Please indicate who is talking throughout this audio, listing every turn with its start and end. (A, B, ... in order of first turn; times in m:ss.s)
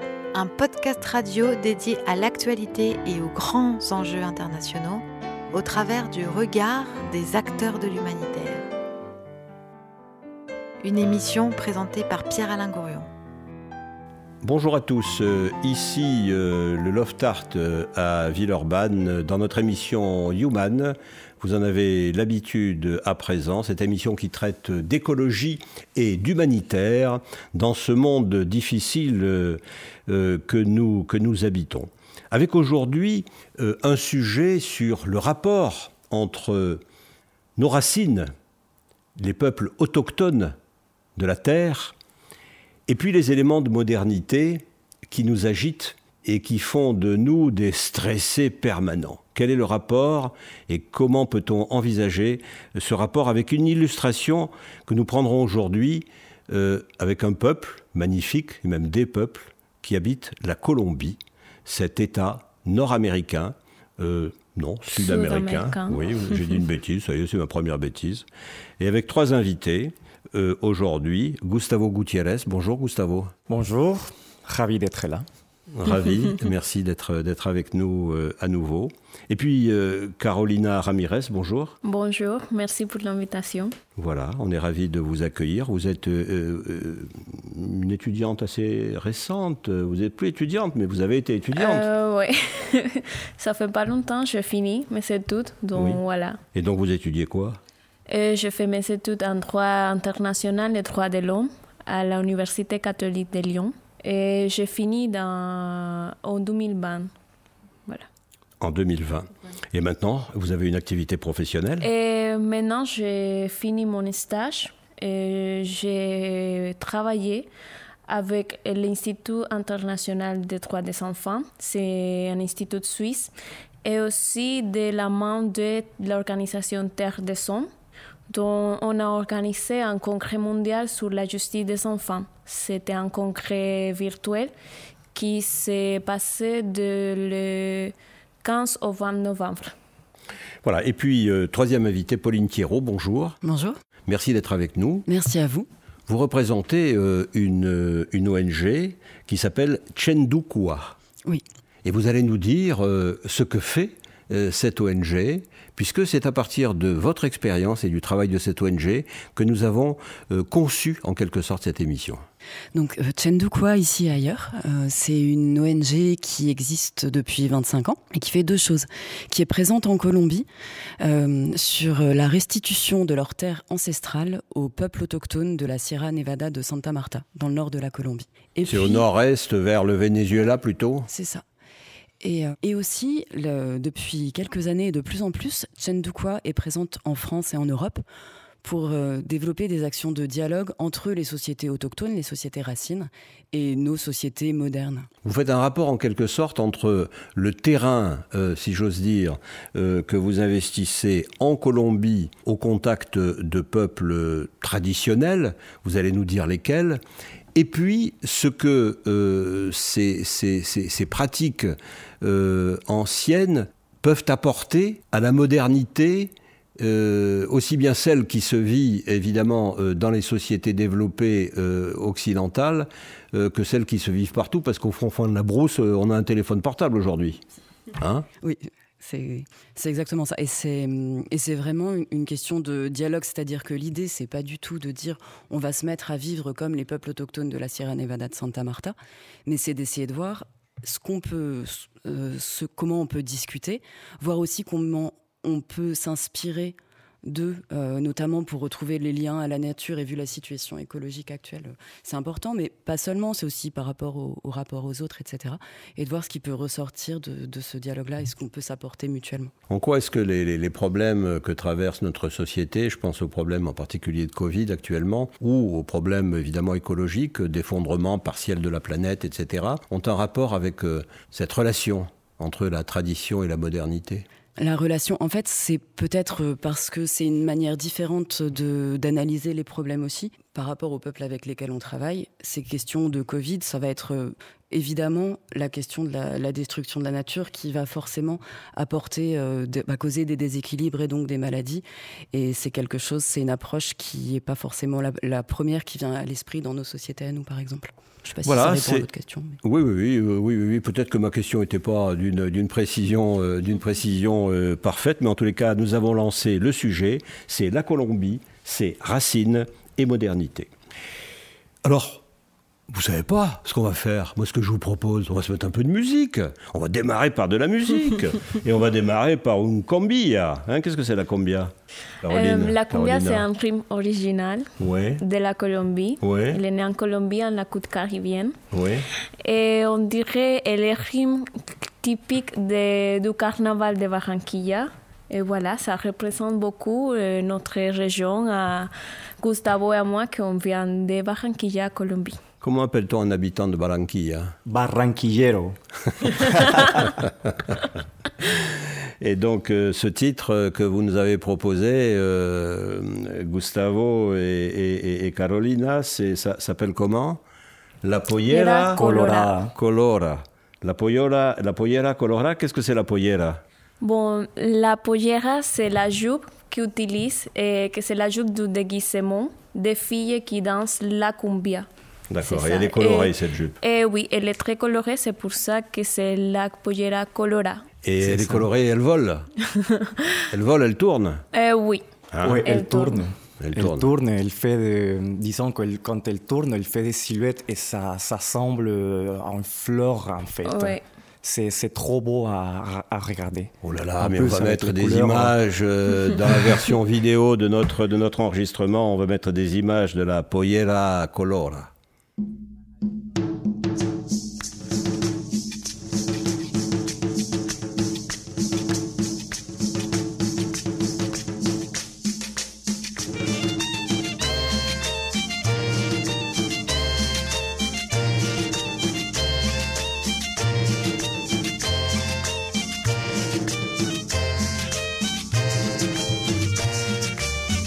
0:00.3-0:08.7 A
0:10.8-0:13.1 A
0:14.4-0:36.8 B
0:37.6-0:38.3 B
0:39.2-0:40.6 B
0:41.2-0:41.9 B
0:42.9-1:08.2 B
1:04.9-1:06.5 C
1:08.8-1:13.3 B
1:13.5-1:15.3 D
1:15.7-1:21.8 B
1:21.8-1:23.7 C
1:24.0-1:31.9 B
1:31.5-1:36.4 C
1:35.7-1:36.0 B
1:36.5-1:37.6 B
1:38.1-1:47.1 C
1:48.6-1:51.9 B
1:51.8-1:57.5 C
1:58.1-2:03.3 C
2:03.8-2:07.7 C
2:08.3-2:14.5 C
2:15.1-2:19.7 C
2:20.6-2:23.4 B
2:23.4-2:23.8 E
2:24.1-2:25.0 B
2:25.0-2:25.7 E
2:26.1-2:31.0 B
2:31.8-2:42.2 B
2:42.7-2:50.5 E
2:51.0-2:59.0 E
2:58.7-3:01.1 B
3:01.1-3:01.4 E
3:02.2-3:08.0 E
3:08.6-3:15.1 E
3:15.2-3:27.0 B
3:27.5-3:47.4 B
3:48.0-3:48.3 B
3:48.4-4:19.5 E
4:19.7-4:34.2 B
4:34.6-4:59.6 E
4:58.4-4:59.1 B
4:59.6-5:10.7 B
5:11.8-5:12.2 B
5:12.9-5:21.7 B
5:22.2-5:23.4 B
5:22.3-5:28.6 C
5:24.8-5:25.2 B
5:26.2-5:26.6 B
5:28.7-5:29.0 B
5:29.4-5:31.5 C
5:32.0-5:42.4 C
5:42.6-5:44.6 B
5:44.6-5:45.8 D
5:46.3-5:47.0 D
5:47.0-5:47.7 B
5:48.4-5:57.4 B
5:58.0-6:03.6 B
5:58.5-5:59.5 C
5:58.9-5:59.7 D
6:04.0-6:11.9 C
6:12.3-6:13.8 B
6:12.4-6:17.8 C
6:18.0-6:19.5 B
6:18.2-6:18.7 D
6:19.8-6:20.1 C
6:20.5-6:21.4 B
6:21.5-6:23.3 C
6:22.3-6:22.8 B
6:22.4-6:35.6 D
6:23.6-6:24.1 B
6:30.6-6:31.0 C
6:33.8-6:41.9 B